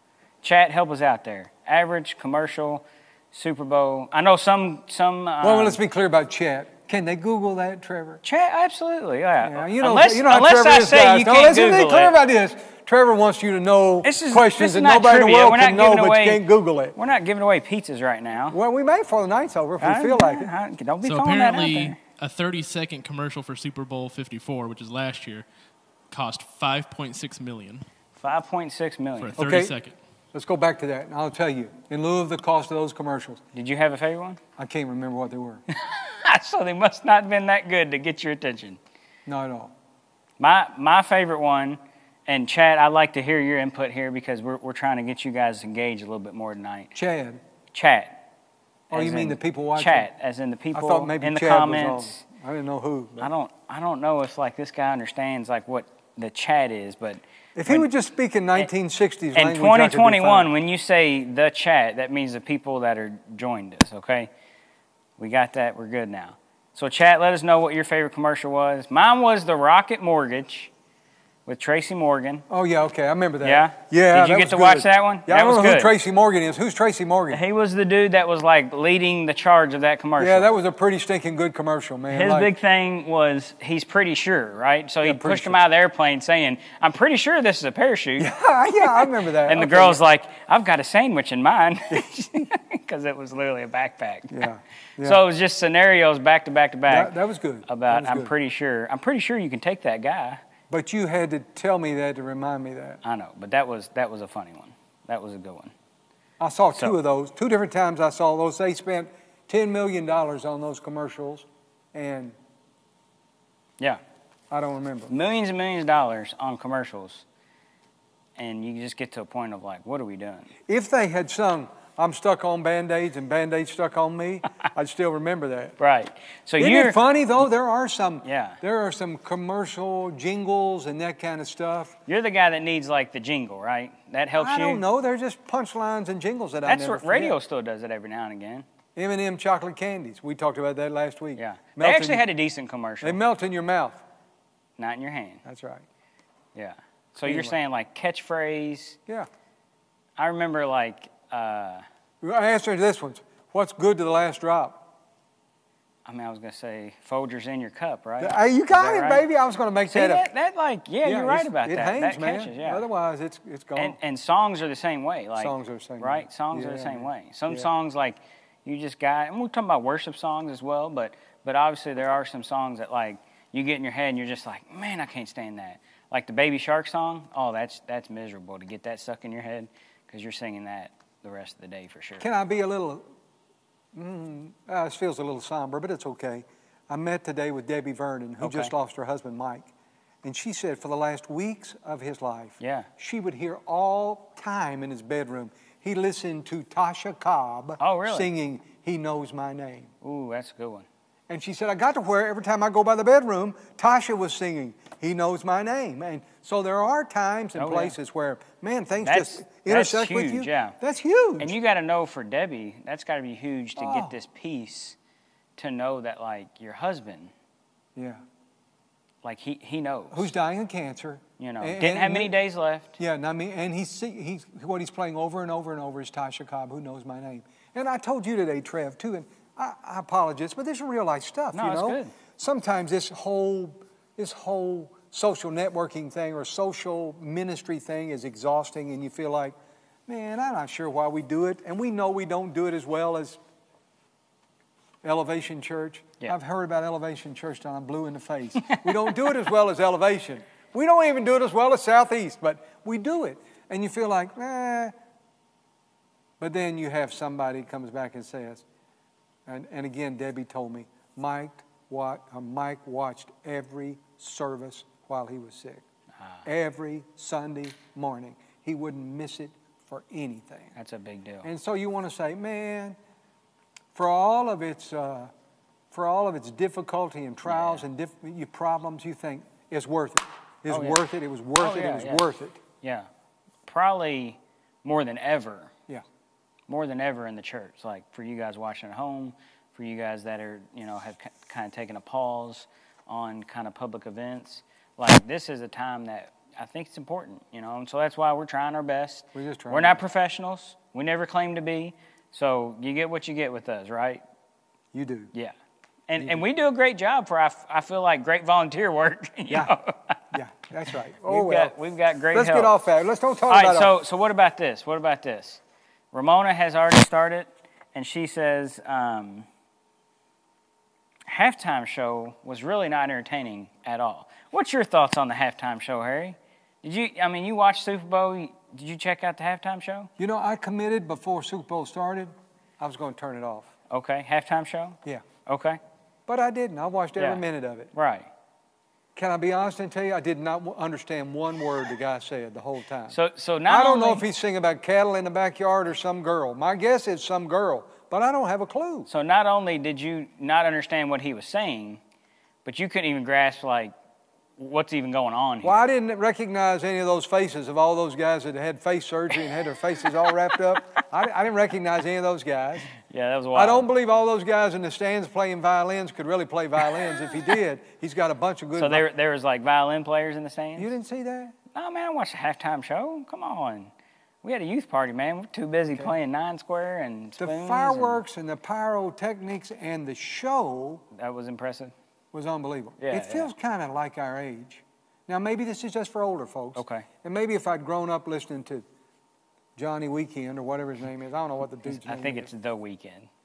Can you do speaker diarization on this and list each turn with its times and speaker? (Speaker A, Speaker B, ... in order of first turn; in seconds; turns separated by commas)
Speaker A: 0.4-5.8, Speaker B: 5.4-8.2, Speaker A: 8.2-12.2, Speaker B: 9.4-17.0, Speaker A: 14.0-18.6, Speaker B: 18.5-20.5, Speaker A: 19.8-22.0, Speaker C: 21.0-25.4, Speaker C: 26.1-27.9, Speaker A: 28.2-29.4, Speaker C: 29.2-29.9, Speaker B: 29.4-29.8, Speaker B: 30.3-33.4, Speaker A: 33.5-34.4, Speaker B: 34.6-35.6, Speaker A: 35.7-38.8, Speaker B: 39.2-39.7, Speaker A: 40.4-46.9, Speaker B: 46.9-47.4, Speaker A: 47.7-48.2, Speaker A: 48.9-52.2, Speaker B: 48.9-50.1, Speaker B: 50.7-53.3, Speaker A: 53.2-57.9, Speaker B: 57.5-60.5, Speaker A: 59.3-64.3, Speaker A: 65.2-70.7, Speaker A: 71.5-72.5, Speaker B: 72.5-77.4, Speaker A: 73.4-75.9, Speaker A: 77.3-80.5, Speaker B: 80.2-82.5, Speaker A: 82.1-94.5, Speaker B: 85.0-85.6, Speaker B: 88.2-90.0, Speaker B: 94.3-95.2, Speaker A: 95.0-100.4, Speaker B: 96.9-98.3, Speaker B: 100.7-103.0, Speaker A: 103.0-105.7, Speaker B: 106.4-112.3, Speaker B: 114.5-115.1, Speaker A: 115.1-117.2, Speaker A: 118.4-120.5, Speaker B: 120.7-125.8, Speaker A: 125.8-127.0, Speaker B: 126.6-131.9, Speaker A: 128.2-128.6, Speaker A: 132.1-134.8, Speaker B: 134.4-137.4, Speaker A: 136.6-138.7, Speaker B: 138.9-142.2, Speaker A: 141.3-143.2, Speaker B: 143.0-144.0, Speaker A: 144.8-145.4, Speaker B: 145.4-145.8, Speaker A: 146.5-149.0, Speaker B: 147.2-147.6, Speaker A: 150.2-151.8, Speaker B: 152.2-154.9, Speaker A: 156.0-159.2, Speaker B: 158.2-160.3, Speaker A: 159.9-162.8, Speaker B: 161.0-164.0, Speaker A: 163.8-182.2, Speaker B: 165.4-167.7, Speaker B: 182.2-183.0, Speaker B: 183.9-189.7, Speaker A: 188.4-188.7, Speaker B: 190.2-199.9, Speaker A: 192.6-192.9, Speaker A: 197.8-198.3, Speaker A: 200.0-200.9, Speaker B: 201.3-211.6, Speaker A: 207.5-207.9, Speaker A: 209.0-210.8, Speaker A: 211.4-215.0, Speaker B: 213.8-214.1, Speaker A: 215.6-217.3, Speaker B: 217.9-218.2, Speaker A: 219.2-220.3, Speaker B: 220.1-222.3, Speaker A: 221.4-223.0, Speaker B: 223.0-239.6, Speaker A: 231.5-232.1, Speaker B: 240.1-243.4, Speaker B: 245.0-254.9, Speaker A: 248.6-249.1, Speaker B: 256.4-258.6, Speaker B: 259.4-265.8, Speaker B: 266.4-270.7, Speaker A: 270.8-271.5, Speaker B: 271.4-273.0, Speaker B: 273.9-275.3, Speaker B: 275.9-282.6, Speaker A: 277.4-277.9, Speaker A: 280.7-281.0, Speaker A: 281.6-282.3, Speaker A: 282.8-283.1, Speaker A: 283.6-285.7, Speaker A: 286.7-304.2, Speaker B: 299.3-300.0, Speaker B: 304.9-305.3, Speaker A: 306.1-310.3, Speaker B: 306.2-306.5, Speaker B: 309.5-309.7, Speaker B: 310.3-311.7, Speaker A: 311.2-312.7, Speaker B: 312.3-314.0, Speaker A: 313.5-315.6, Speaker A: 316.1-319.5, Speaker A: 321.2-330.1, Speaker B: 330.2-333.7, Speaker A: 333.9-335.8, Speaker B: 336.3-337.9, Speaker A: 337.2-338.3, Speaker B: 339.1-349.1, Speaker A: 343.1-344.2, Speaker A: 349.1-352.0, Speaker A: 352.6-353.9, Speaker A: 354.6-355.8, Speaker B: 355.6-362.9, Speaker A: 362.9-363.9, Speaker B: 363.5-369.0, Speaker A: 368.8-370.9, Speaker B: 370.8-371.5, Speaker A: 371.7-373.9, Speaker A: 374.4-378.2, Speaker B: 377.4-381.0, Speaker A: 381.1-381.9, Speaker B: 382.3-388.8, Speaker A: 383.0-383.5, Speaker A: 386.7-387.1, Speaker B: 389.8-392.5, Speaker A: 391.9-393.3